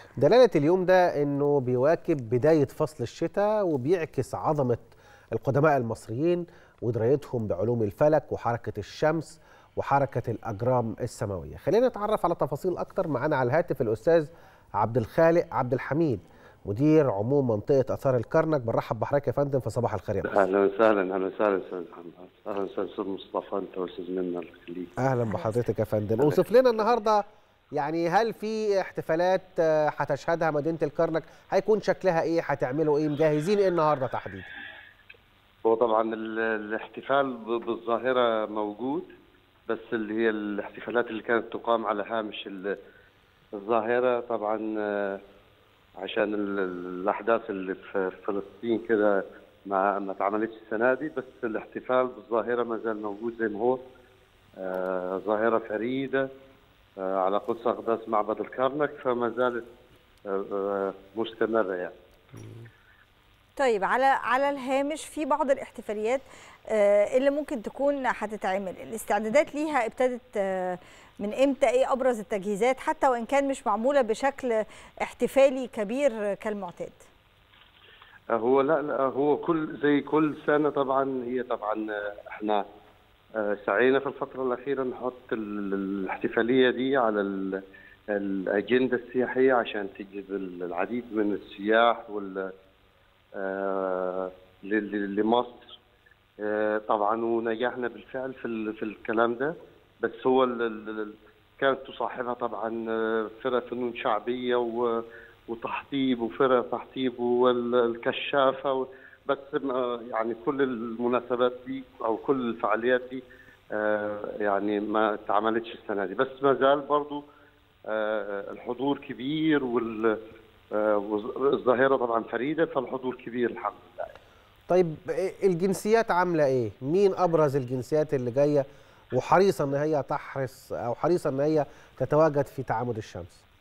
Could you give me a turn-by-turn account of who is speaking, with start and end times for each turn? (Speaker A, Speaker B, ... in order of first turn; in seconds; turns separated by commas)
Speaker A: 0.2-20.4, Speaker B: 20.2-24.9, Speaker A: 25.0-27.2, Speaker C: 25.2-25.6, Speaker B: 26.2-26.9, Speaker A: 27.7-34.5, Speaker B: 35.6-39.1, Speaker B: 39.7-42.7, Speaker B: 43.5-45.2, Speaker B: 46.0-53.8, Speaker B: 54.6-56.3, Speaker B: 57.0-59.6, Speaker B: 60.3-61.9, Speaker C: 63.6-77.0, Speaker B: 78.3-82.6, Speaker B: 83.4-87.6, Speaker B: 88.1-92.5, Speaker B: 93.3-95.7, Speaker B: 96.4-113.2, Speaker B: 113.7-117.2, Speaker B: 117.9-120.1, Speaker B: 120.7-124.1, Speaker A: 124.7-133.4